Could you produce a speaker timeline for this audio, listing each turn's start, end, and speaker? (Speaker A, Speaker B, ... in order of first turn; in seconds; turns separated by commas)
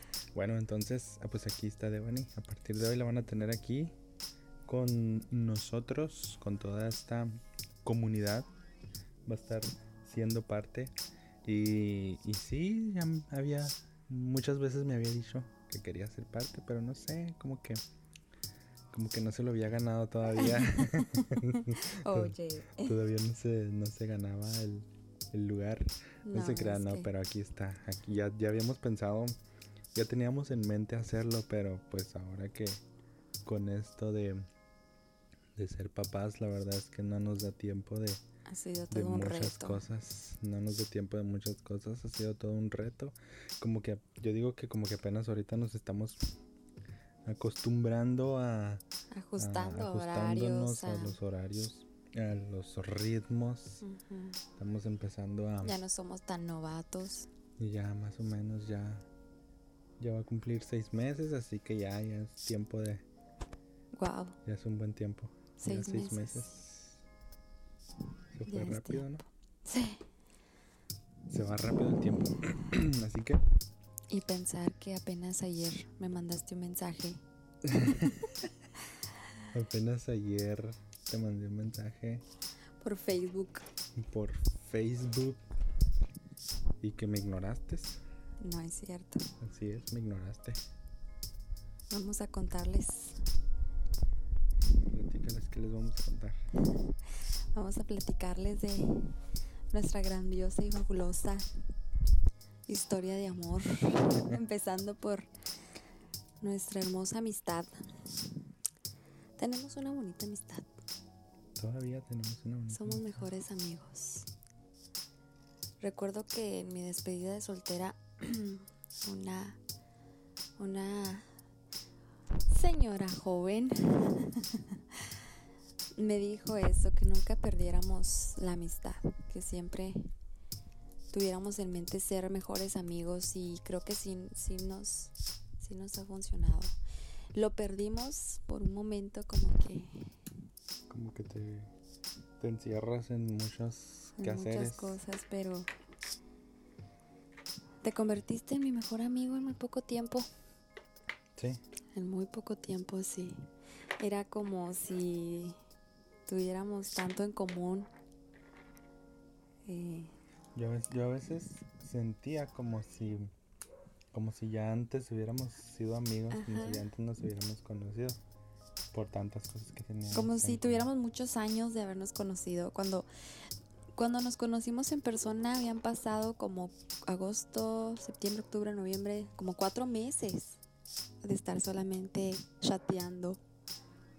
Speaker A: 0.3-3.9, Speaker A: 4.7-8.5, Speaker A: 9.3-10.9, Speaker A: 11.4-17.8, Speaker A: 18.9-29.4, Speaker B: 20.4-22.9, Speaker B: 26.2-27.1, Speaker A: 29.9-32.8, Speaker A: 33.5-34.5, Speaker A: 35.6-38.2, Speaker B: 38.5-39.8, Speaker A: 38.9-46.2, Speaker A: 47.2-48.8, Speaker B: 49.1-51.2, Speaker A: 49.4-53.8, Speaker B: 53.8-54.4, Speaker A: 54.6-55.8, Speaker B: 55.6-57.3, Speaker A: 57.6-59.1, Speaker A: 60.0-63.0, Speaker B: 63.9-64.4, Speaker A: 64.5-67.0, Speaker B: 65.6-66.5, Speaker A: 68.3-69.2, Speaker B: 68.5-70.0, Speaker A: 71.3-73.4, Speaker B: 74.1-77.2, Speaker A: 77.7-78.3, Speaker B: 77.8-78.1, Speaker A: 79.5-82.2, Speaker B: 82.8-83.7, Speaker A: 84.0-85.4, Speaker A: 86.8-88.0, Speaker B: 88.4-89.3, Speaker A: 89.4-90.6, Speaker B: 91.9-93.2, Speaker A: 94.9-96.4, Speaker B: 96.8-99.2, Speaker B: 99.7-101.5, Speaker B: 102.7-105.3, Speaker B: 106.4-108.4, Speaker B: 109.4-110.7, Speaker A: 111.6-113.2, Speaker B: 112.7-114.3, Speaker B: 115.8-119.6, Speaker B: 120.6-121.3, Speaker B: 122.5-125.2, Speaker B: 126.0-130.1, Speaker B: 131.1-136.8, Speaker B: 137.3-140.2, Speaker A: 140.9-141.7, Speaker A: 142.4-145.0, Speaker B: 144.2-145.7, Speaker B: 147.8-150.3, Speaker A: 151.4-151.6, Speaker B: 151.9-153.5, Speaker B: 154.0-155.6, Speaker B: 156.3-157.9, Speaker B: 159.7-160.2, Speaker A: 160.6-163.3, Speaker A: 164.1-168.2, Speaker B: 166.3-166.8, Speaker A: 168.9-170.9, Speaker B: 170.1-173.1, Speaker B: 174.0-180.6, Speaker B: 181.2-183.4